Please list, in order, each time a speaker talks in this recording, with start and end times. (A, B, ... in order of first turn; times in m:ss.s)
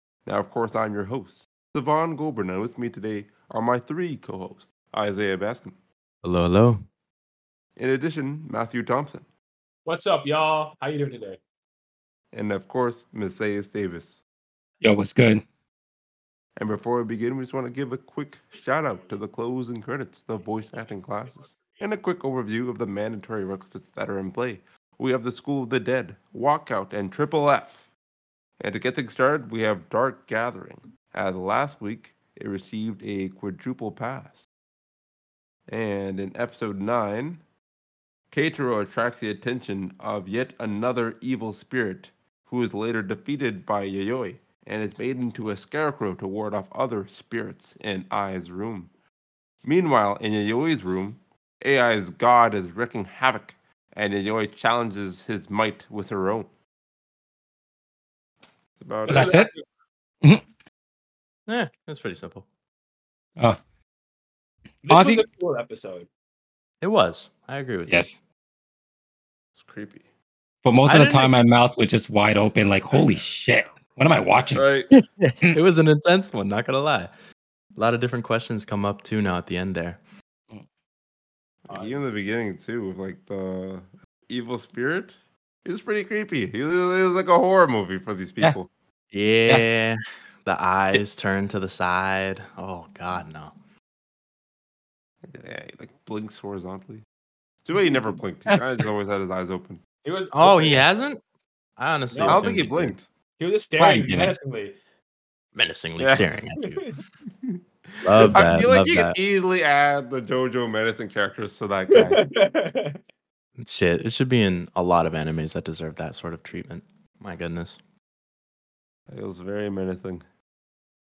0:00.2-0:05.8 A
0:06.2-0:06.8 B
0:07.8-0:09.2 A
0:09.9-0:11.4 C
0:12.3-0:14.2 A
0:14.8-0:15.4 D
0:16.6-0:27.8 A
0:28.6-0:34.5 A
0:35.7-0:37.4 A
0:38.3-0:48.9 A
0:49.6-0:56.5 A
0:58.8-0:59.4 A
0:59.0-0:59.6 C
0:59.1-0:59.5 D
1:01.5-1:02.4 B
1:04.8-1:06.1 C
1:04.9-1:05.2 D
1:06.8-1:08.1 B
1:07.9-1:08.2 D
1:09.6-1:10.0 A
1:10.6-1:15.6 D
1:10.9-1:11.3 B
1:12.9-1:13.2 A
1:14.5-1:14.9 A
1:15.2-1:17.1 B
1:17.8-1:20.0 B
1:21.7-1:28.7 A
1:29.1-1:33.5 B
1:35.3-1:37.0 A
1:37.6-1:39.8 A
1:40.0-1:40.9 C
1:40.4-1:41.2 B
1:41.8-1:43.0 B
1:42.1-1:42.5 C
1:42.2-1:43.0 A
1:43.4-1:44.8 C
1:43.8-1:44.4 D
1:45.6-1:46.9 B
1:46.0-1:46.3 A
1:46.6-1:46.9 C
1:48.0-1:49.2 B
1:48.2-1:52.2 A
1:51.9-1:53.0 C
1:53.6-1:57.8 B
1:59.1-2:00.2 A